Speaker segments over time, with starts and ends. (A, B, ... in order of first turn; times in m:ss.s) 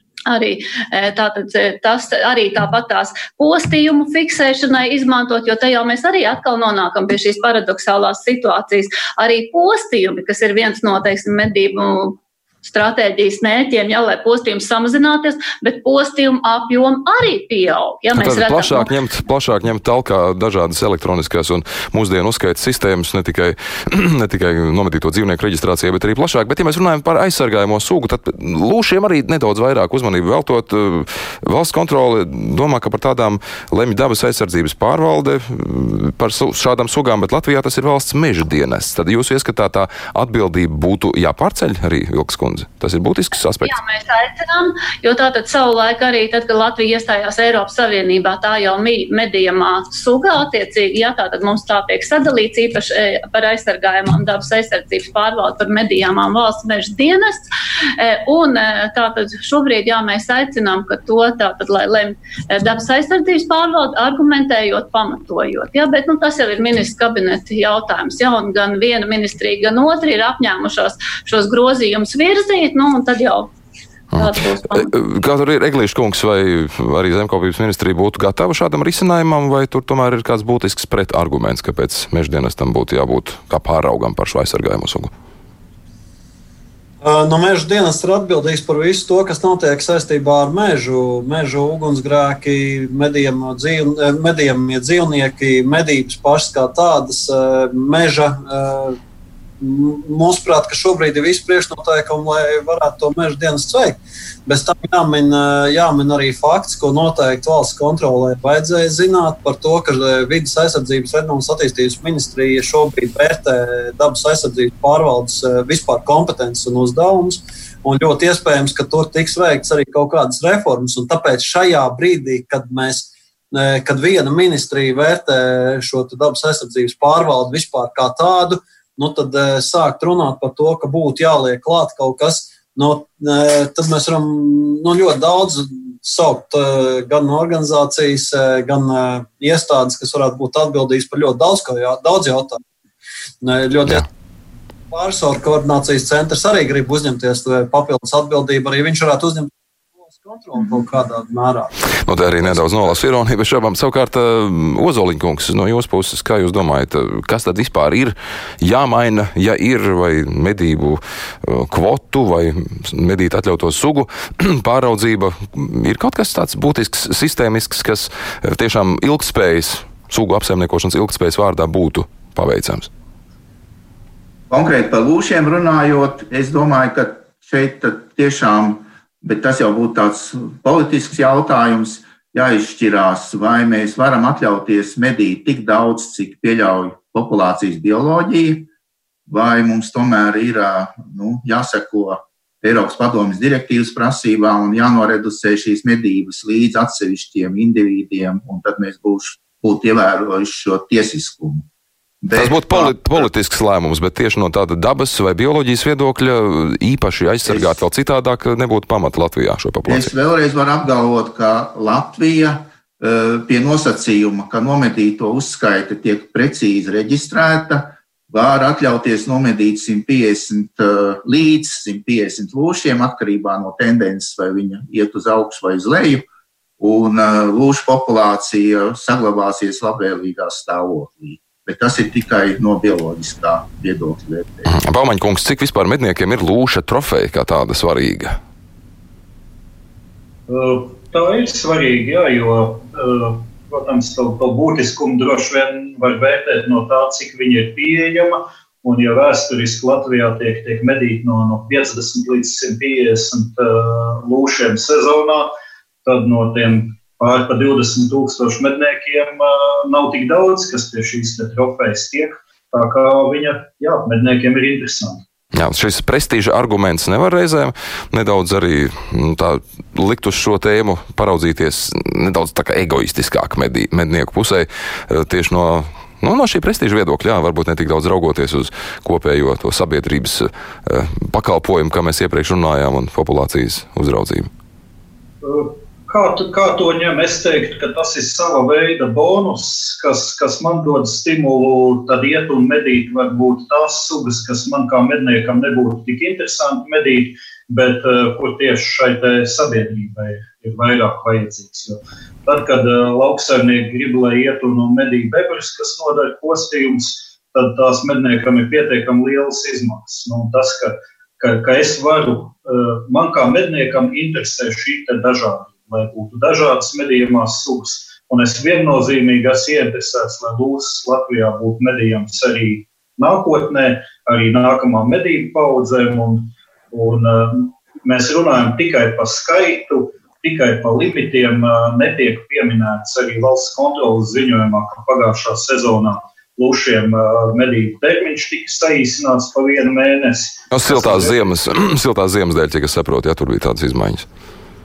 0:00.3-0:18.9 A
0:18.1-0:43.8 B
0:43.6-0:57.4 A
0:58.0-1:13.5 A
1:14.1-1:25.1 B
1:14.1-1:14.9 A
1:27.0-1:39.0 C
1:39.6-2:22.6 C
2:23.4-2:24.1 C
2:24.9-2:29.5 C
2:30.0-2:32.9 C
2:32.0-2:52.9 B
2:54.5-3:08.7 D
3:09.3-3:21.6 D
3:22.2-3:23.3 D
3:22.3-3:30.1 B
3:29.8-3:46.3 D
3:46.8-3:54.7 D
3:54.7-3:58.4 B
4:00.5-4:15.5 E
4:16.0-4:25.2 E
4:25.5-4:44.5 B
4:45.4-5:41.5 E
5:40.7-5:44.3 B